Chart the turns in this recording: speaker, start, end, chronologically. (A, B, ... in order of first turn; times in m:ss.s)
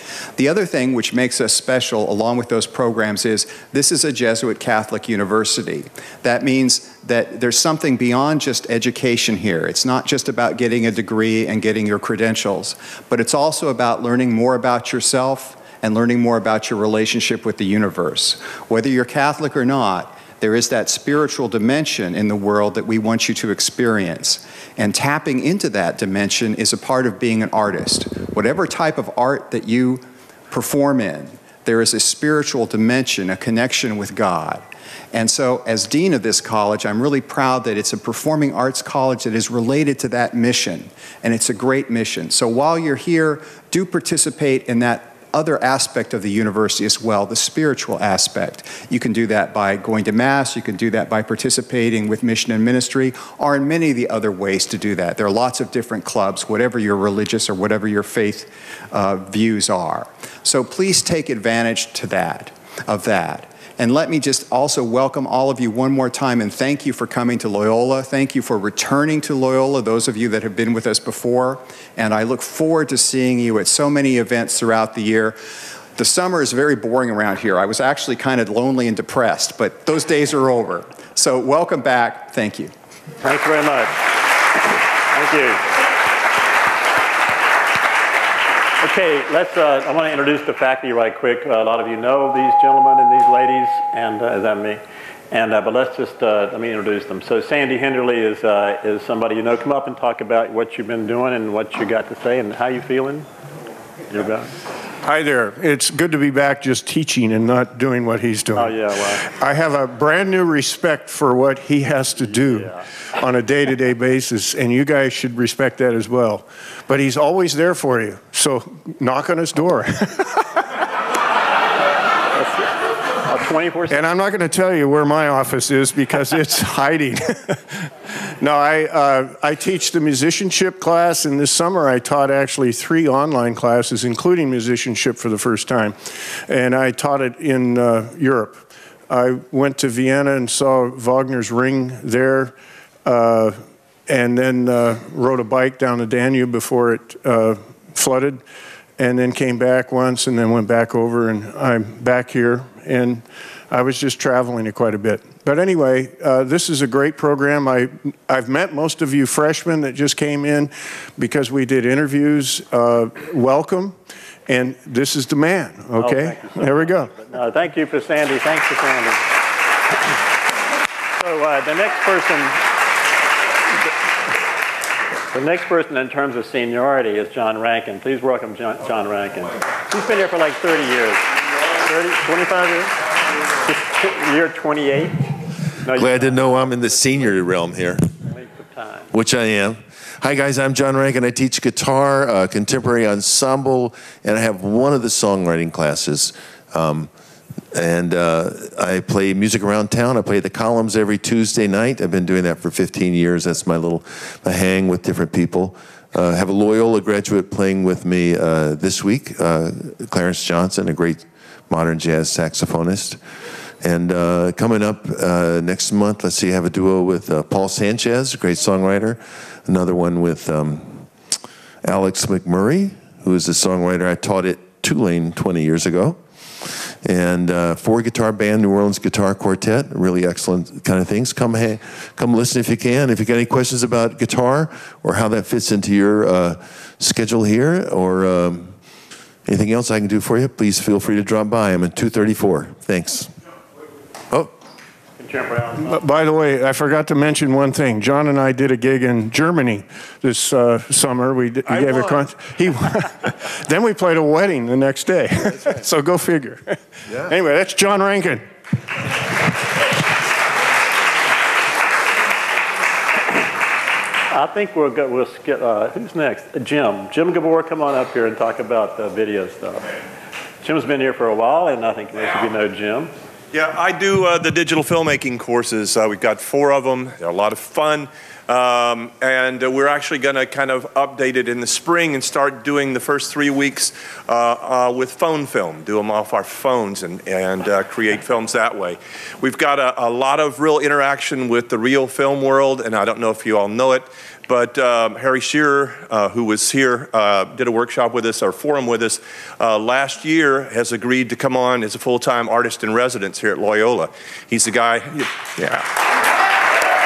0:00.4-1:15.4 A
1:16.0-1:22.7 A
1:23.2-1:24.1 B
1:25.1-1:25.7 B
1:28.8-1:43.3 B
1:44.1-1:44.5 B
1:45.0-2:00.4 C
1:48.5-1:49.3 B
1:52.3-1:52.8 B
2:02.4-2:04.0 B
2:03.9-2:07.9 C
2:08.4-2:22.5 C
2:23.0-2:28.4 C
2:29.0-2:44.0 C
2:44.5-2:47.1 C
2:46.0-2:49.2 B
2:51.2-2:52.6 B
2:55.3-3:03.0 B
3:03.7-3:05.2 B
3:05.8-3:07.2 B
3:05.9-3:08.0 D
3:08.2-3:09.1 B
3:09.1-3:17.1 D
3:17.7-3:33.2 D
3:33.8-3:41.1 D
3:41.8-3:58.7 D
3:59.4-4:03.3 D
4:05.2-4:06.0 B
4:05.8-4:18.4 C
4:24.3-4:29.9 B
4:30.6-4:33.1 B
4:33.5-5:05.9 E